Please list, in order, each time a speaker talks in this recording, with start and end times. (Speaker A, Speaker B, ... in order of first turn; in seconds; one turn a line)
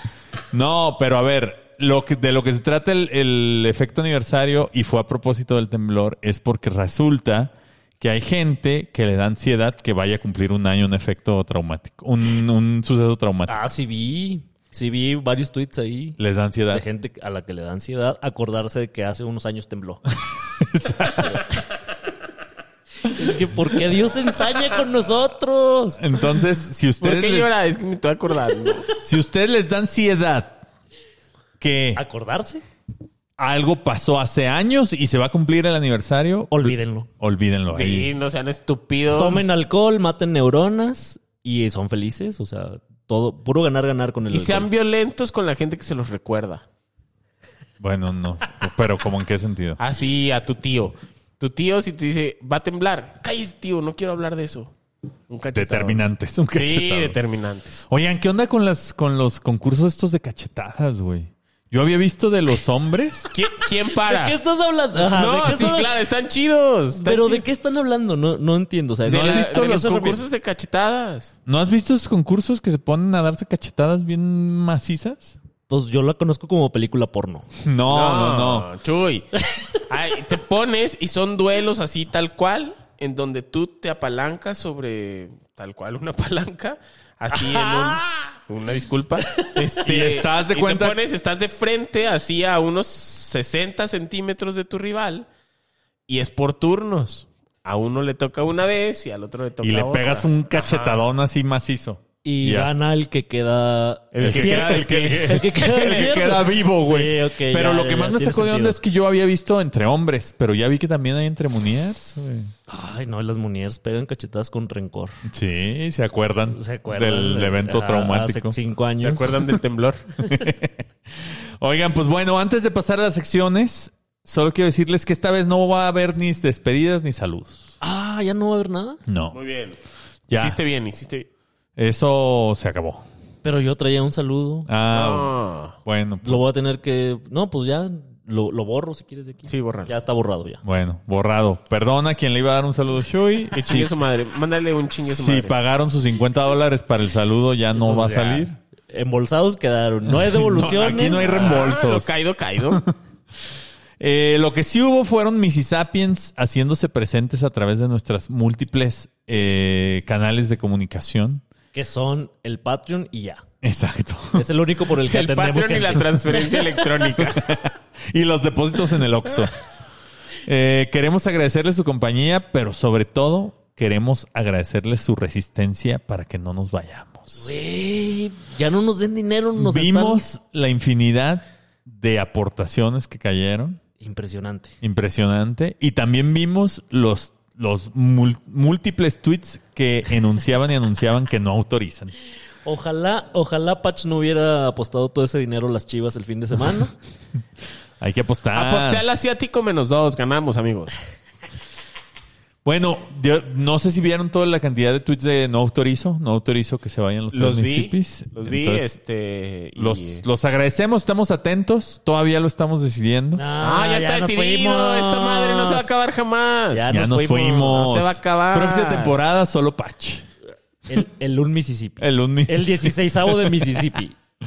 Speaker A: 0.5-13.6
Speaker B: 13.5-16.2
Speaker A: 16.2-16.8
Speaker B: 16.7-20.0
Speaker A: 20.6-21.4
Speaker B: 23.1-26.0
Speaker A: 26.0-27.5
Speaker C: 27.0-28.9
Speaker A: 29.0-30.6
Speaker A: 31.6-32.0
Speaker B: 31.9-32.6
Speaker A: 33.4-38.1
Speaker B: 36.5-37.1
Speaker C: 37.7-39.5
Speaker B: 39.1-44.7
Speaker C: 44.3-46.6
Speaker A: 47.8-49.8
Speaker C: 49.8-54.7
Speaker C: 55.3-56.0
Speaker A: 55.5-57.2
Speaker C: 56.5-57.8
Speaker A: 57.9-63.3
Speaker C: 63.3-64.4
Speaker B: 63.9-65.9
Speaker C: 65.0-67.5
Speaker B: 66.9-70.2
Speaker A: 69.0-70.0
Speaker C: 69.1-71.3
Speaker A: 71.5-75.4
Speaker B: 75.7-77.5
Speaker A: 77.6-78.7
Speaker C: 77.9-95.3
Speaker B: 87.3-88.0
Speaker A: 89.8-91.0
Speaker C: 96.1-101.0
Speaker A: 99.6-102.7
Speaker B: 102.2-108.8
Speaker C: 104.1-105.5
Speaker A: 104.2-112.5
Speaker B: 112.7-115.2
Speaker A: 115.3-118.6
Speaker B: 116.5-119.3
Speaker C: 119.0-120.1
Speaker A: 120.2-127.8
Speaker B: 127.8-129.0
Speaker A: 129.1-129.4
Speaker C: 129.3-129.8
Speaker A: 130.3-130.6
Speaker C: 130.3-131.3
Speaker A: 131.8-133.1
Speaker B: 133.4-134.7
Speaker A: 134.7-135.3
Speaker C: 134.9-135.8
Speaker A: 135.8-136.4
Speaker B: 136.2-140.6
Speaker C: 139.5-140.0
Speaker A: 140.6-143.9
Speaker C: 143.5-145.6
Speaker A: 145.0-148.6
Speaker B: 147.8-151.5
Speaker A: 150.1-152.9
Speaker C: 150.7-152.8
Speaker A: 154.0-161.4
Speaker B: 161.7-163.4
Speaker A: 163.6-164.4
Speaker B: 164.3-166.6
Speaker C: 165.0-167.5
Speaker A: 167.2-169.5
Speaker A: 170.4-177.6
Speaker B: 177.3-180.2
Speaker A: 179.6-183.8
Speaker B: 184.0-184.7
Speaker A: 184.8-192.1
Speaker B: 192.6-196.9
Speaker A: 198.0-199.0
Speaker C: 198.5-200.9
Speaker A: 202.6-208.9
Speaker C: 207.3-210.2
Speaker A: 209.8-213.4
Speaker B: 213.3-215.9
Speaker C: 213.6-219.2
Speaker B: 216.7-217.7
Speaker A: 216.9-220.3
Speaker B: 220.9-224.1
Speaker A: 222.0-223.9